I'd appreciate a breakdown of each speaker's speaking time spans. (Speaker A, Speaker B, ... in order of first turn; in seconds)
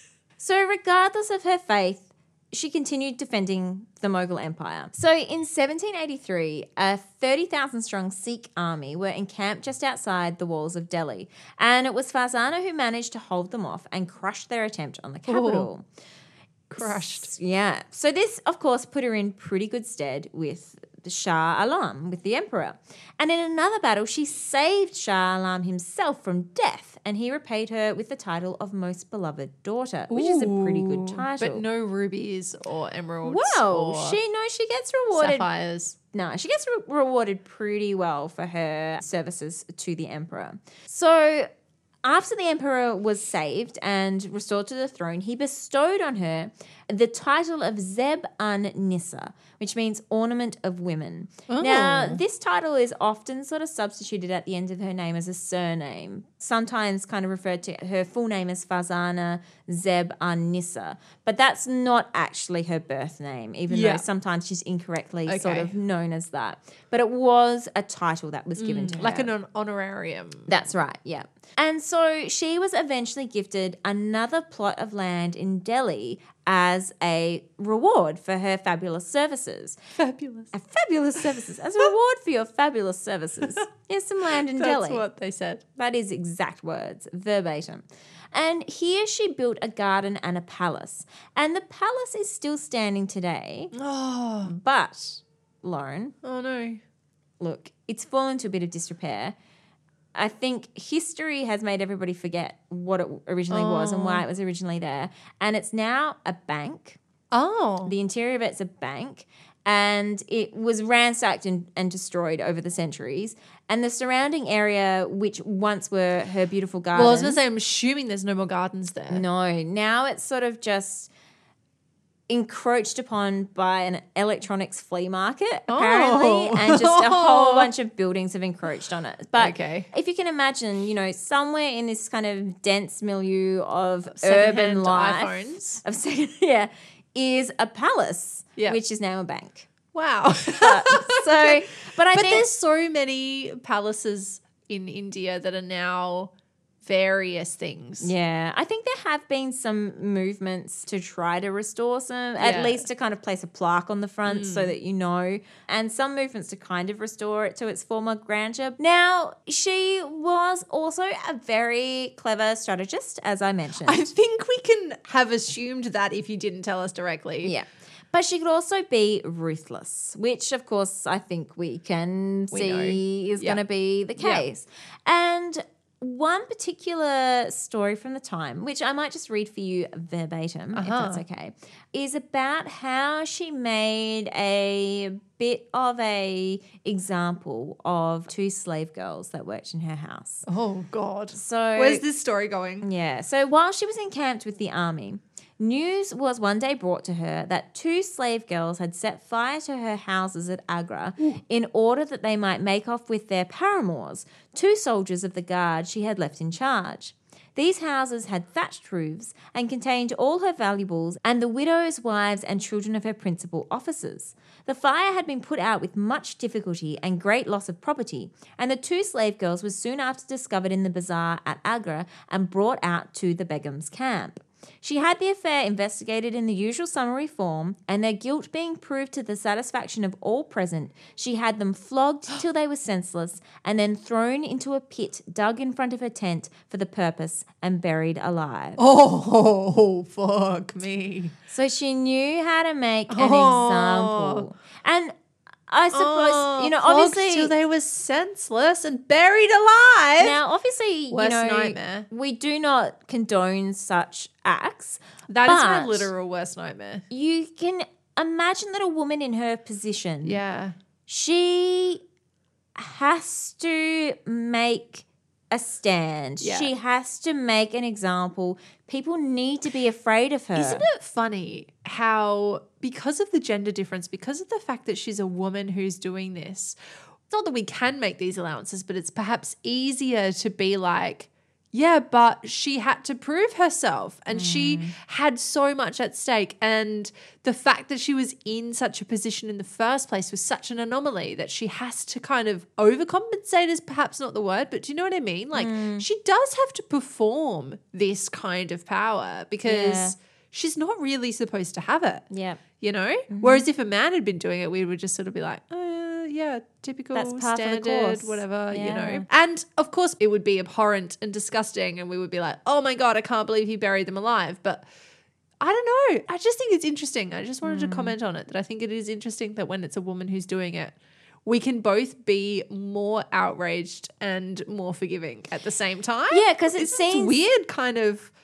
Speaker A: 0.4-15.8, 16.8-31.6, 33.2-35.5, 36.1-41.5, 42.0-69.3, 70.5-79.8, 80.5-85.0, 85.8-93.7, 94.5-96.2, 97.4-99.3, 100.2-107.0, 107.8-117.4, 119.1-121.1, 122.3-139.7, 140.5-142.5, 148.0-164.1, 167.4-190.5, 191.3-192.0, 192.8-238.8, 241.5-245.1, 245.7-247.5, 250.2-256.1, 257.1-260.4, 261.1-262.0, 262.8-270.9, 284.3-284.9, 295.5-296.1, 299.6-300.1, 302.3-302.6, 303.3-303.6, 307.1-309.2, 317.6-318.1, 326.3-327.4
Speaker B: 15.3-15.7, 16.7-17.3, 30.1-34.2, 35.1-36.0, 51.5-52.2, 63.7-64.0, 65.3-65.7, 68.6-70.5, 80.0-80.5, 84.3-85.6, 93.7-94.5, 96.2-96.8, 103.5-104.2, 107.3-107.9, 116.9-119.2, 125.7-127.7, 129.4-129.9, 134.1-135.8, 139.9-146.3, 146.8-148.1, 152.4-152.8, 154.3-154.8, 163.8-167.5, 172.5-173.6, 174.2-174.4, 180.8-181.2, 190.5-192.9, 238.8-241.3, 243.1-244.5, 245.9-250.4, 251.1-252.1, 255.3-257.1, 260.2-260.8, 266.4-266.7, 270.6-276.8, 277.3-302.3, 302.8-314.9, 315.6-328.3